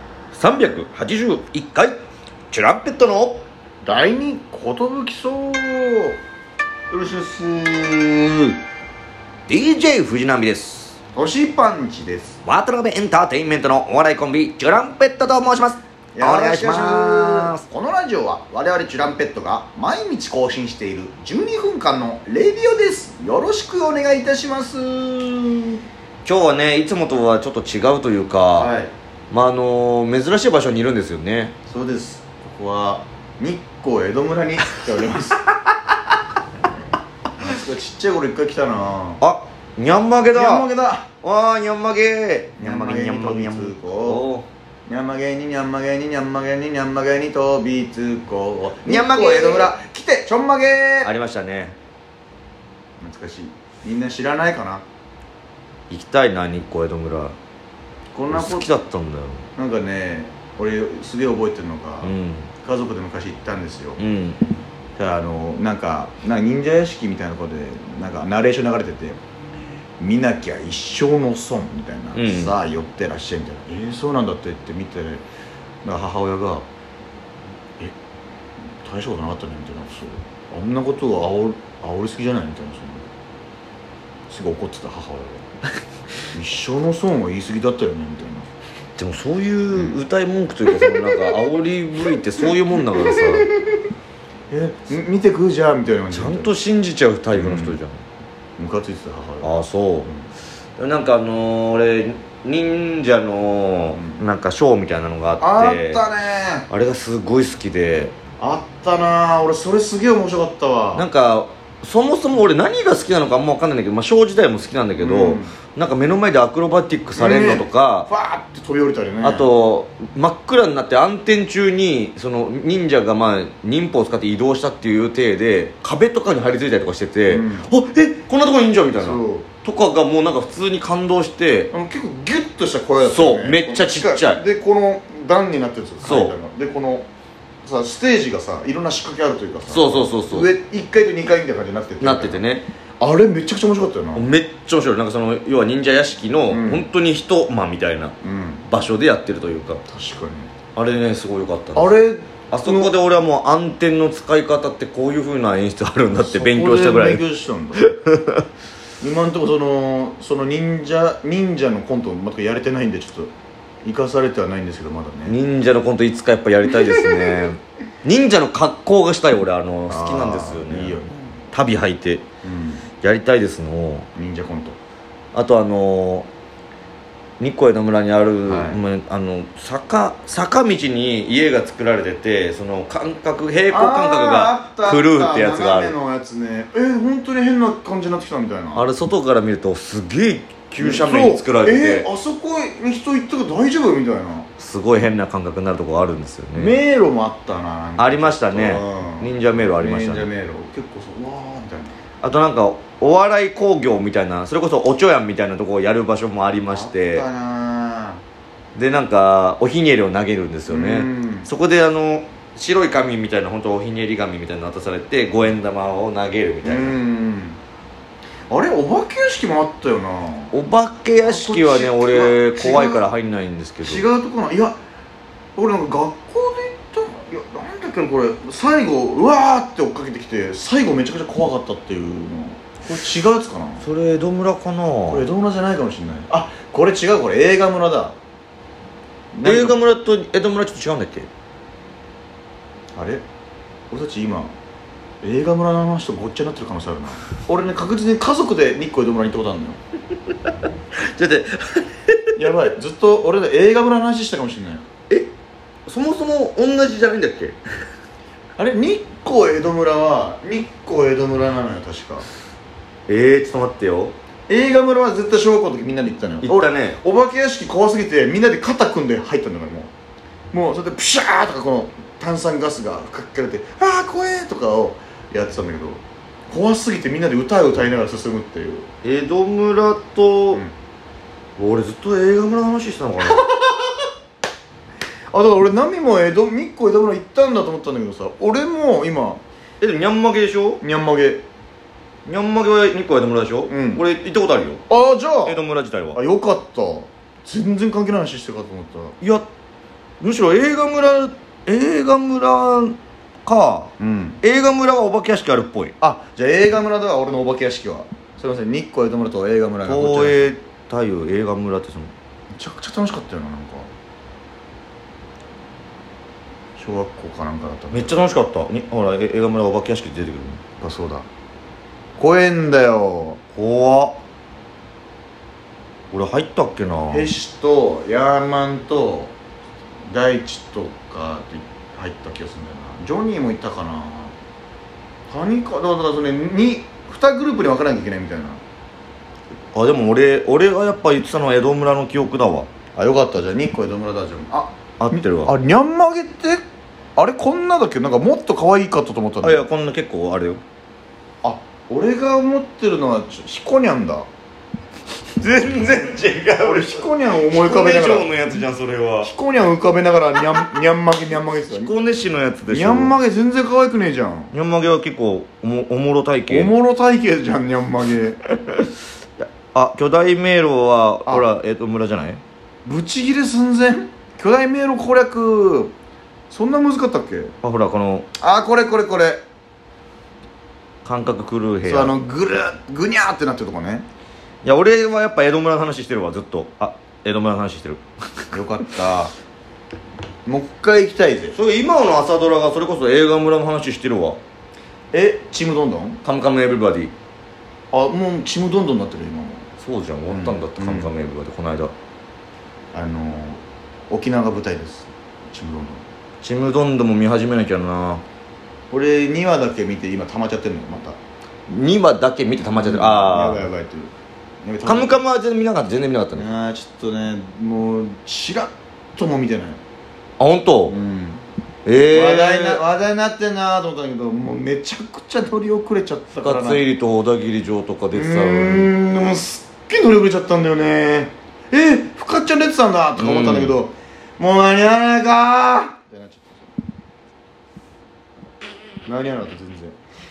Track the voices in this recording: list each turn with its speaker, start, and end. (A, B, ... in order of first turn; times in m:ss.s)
0:00.3-0:02.0 A
0:02.5-0:03.4 A
0:03.8-0:06.2 B
0:06.9-0:07.4 B
0:07.1-0:08.5 A
0:09.5-0:11.0 A
0:11.2-0:12.4 B
0:12.4-0:17.6 A
0:16.2-0:25.8 B
0:26.2-0:28.7 A
0:28.6-0:28.9 B
0:29.3-0:31.6 A
0:31.7-0:35.5 B
0:37.4-0:39.2 B
0:39.2-0:40.7 A
0:40.3-0:41.1 B
0:41.2-0:44.5 A
0:42.6-0:44.3 B
0:44.9-0:51.1 B
0:48.8-0:49.7 A
0:51.0-0:51.8 A
0:53.0-0:54.8 B
0:55.9-0:57.4 A
0:58.1-0:58.7 B
0:58.3-0:59.5 A
0:59.6-1:02.1 B
1:02.0-1:02.5 A
1:02.6-1:04.0 B
1:04.0-1:04.4 A
1:05.0-1:09.2 B
1:10.0-1:15.2 B
1:12.2-1:12.6 A
1:15.8-1:16.7 B
1:18.8-1:23.1 B
1:24.3-1:25.4 B
1:26.3-1:28.5 B
1:29.0-1:33.5 A
1:29.7-1:30.0 B
1:30.8-1:31.3 B
1:33.1-1:33.7 B
1:34.5-1:36.5 B
1:36.1-1:38.0 A
1:37.3-1:37.8 B
1:38.6-1:40.3 B
1:39.4-1:40.1 A
1:40.8-1:46.0 A
1:43.9-1:44.2 B
1:45.4-1:46.7 B
1:46.7-1:48.2 A
1:48.4-1:51.1 B
1:51.0-1:58.1 A
1:55.0-1:55.5 B
1:57.2-1:59.5 B
1:59.2-2:11.7 A
2:07.3-2:07.7 B
2:09.0-2:09.5 B
2:11.7-2:17.1 B
2:13.0-2:14.4 A
2:16.0-2:16.4 A
2:17.6-2:22.4 B
2:19.7-2:20.5 A
2:22.0-2:22.7 A
2:23.0-2:24.3 B
2:24.2-2:28.1 A
2:26.5-2:26.9 B
2:28.2-2:28.7 B
2:28.7-2:29.8 A
2:29.9-2:30.5 B
2:30.8-2:32.0 A
2:31.8-2:32.9 B
2:32.5-2:37.2 A
2:36.2-2:37.8 B
2:37.8-2:38.4 A
2:39.0-2:43.3 B
2:43.8-2:45.4 B
2:45.3-2:51.0 A
2:46.9-2:47.5 B
2:49.9-2:51.4 B
2:51.5-2:52.2 A
2:52.4-2:52.8 B
2:53.0-2:54.1 A
2:54.2-2:54.8 B
2:55.3-2:56.3 A
2:57.4-3:06.0 A
2:58.5-2:58.8 B
3:03.7-3:08.9 B
3:08.8-3:12.1 A
3:10.8-3:14.5 B
3:14.6-3:16.8 A
3:16.6-3:22.0 B
3:18.0-3:20.3 A
3:22.2-3:27.2 A
3:26.7-3:28.2 B
3:28.8-3:37.0 A
3:30.7-3:31.5 B
3:36.6-3:37.6 B
3:38.5-3:40.6 B
3:40.5-3:44.0 A
3:41.2-3:43.1 B
3:43.8-3:44.8 B
3:45.6-3:53.8 B
3:53.8-3:55.3 A
3:55.1-3:58.2 B
3:59.3-3:59.8 B
3:59.4-4:01.3 A
4:03.0-4:03.2 B
4:03.9-4:04.5 B
4:05.2-4:09.8 B
4:11.0-4:12.4 A
4:12.4-4:14.8 B
4:15.9-4:17.6 A
4:18.6-4:22.2 B
4:23.1-4:24.1 A
4:24.5-4:29.9 B
4:26.4-4:27.0 A
4:30.5-4:38.9 B
4:39.0-4:40.6 A
4:41.6-4:43.4 A
4:43.2-4:43.9 B
4:45.3-4:49.4 B
4:49.8-4:50.8 A
4:50.8-4:51.4 B
4:52.3-4:54.8 A
4:53.7-4:54.0 B
4:54.9-4:55.6 B
4:55.4-4:56.2 A
4:56.1-4:59.2 B
4:59.2-4:59.5 A
5:00.2-5:06.0 A
5:04.0-5:04.4 B
5:06.0-5:10.5 B
5:09.8-5:12.1 A
5:12.6-5:13.9 B
5:16.8-5:18.2 B
5:17.9-5:20.6 A
5:20.8-5:21.3 B
5:22.2-5:23.4 B
5:23.5-5:24.2 A
5:26.1-5:27.3 A
5:27.1-5:29.3 B
5:30.1-5:34.4 B
5:35.3-5:38.6 B
5:39.7-5:42.7 A
5:43.0-5:46.6 B
5:45.0-5:45.5 A
5:47.2-5:49.6 B
5:49.4-5:50.6 A
5:51.4-5:54.3 B
5:55.4-5:59.3 A
5:56.6-5:58.3 B
5:59.2-6:01.9 B
6:01.7-6:03.2 A
6:02.7-6:04.5 B
6:04.5-6:06.7 A
6:06.5-6:08.4 B
6:09.4-6:12.4 A
6:12.8-6:15.9 B
6:16.5-6:17.5 B
6:17.6-6:18.3 A
6:18.4-6:19.4 B
6:21.0-6:22.2 A
6:21.8-6:24.1 B
6:24.6-6:28.0 A
6:28.5-6:29.3 B
6:30.5-6:31.6 B
6:31.5-6:34.4 A
6:35.1-6:36.2 B
6:36.2-6:37.1 A
6:37.9-6:39.6 B
6:39.8-6:41.9 A
6:40.3-6:41.1 B
6:42.9-6:46.0 B
6:46.4-6:48.2 A
6:48.9-6:51.2 B
6:51.7-6:53.6 A
6:52.6-6:54.1 B
6:54.6-6:55.2 B
6:54.9-6:56.5 A
6:56.3-6:59.8 B
7:00.4-7:01.0 A
7:00.9-7:01.4 B
7:01.9-7:02.8 A
7:02.1-7:06.8 B
7:06.4-7:08.9 A
7:08.1-7:16.7 B
7:13.2-7:13.8 A
7:19.1-7:20.0 B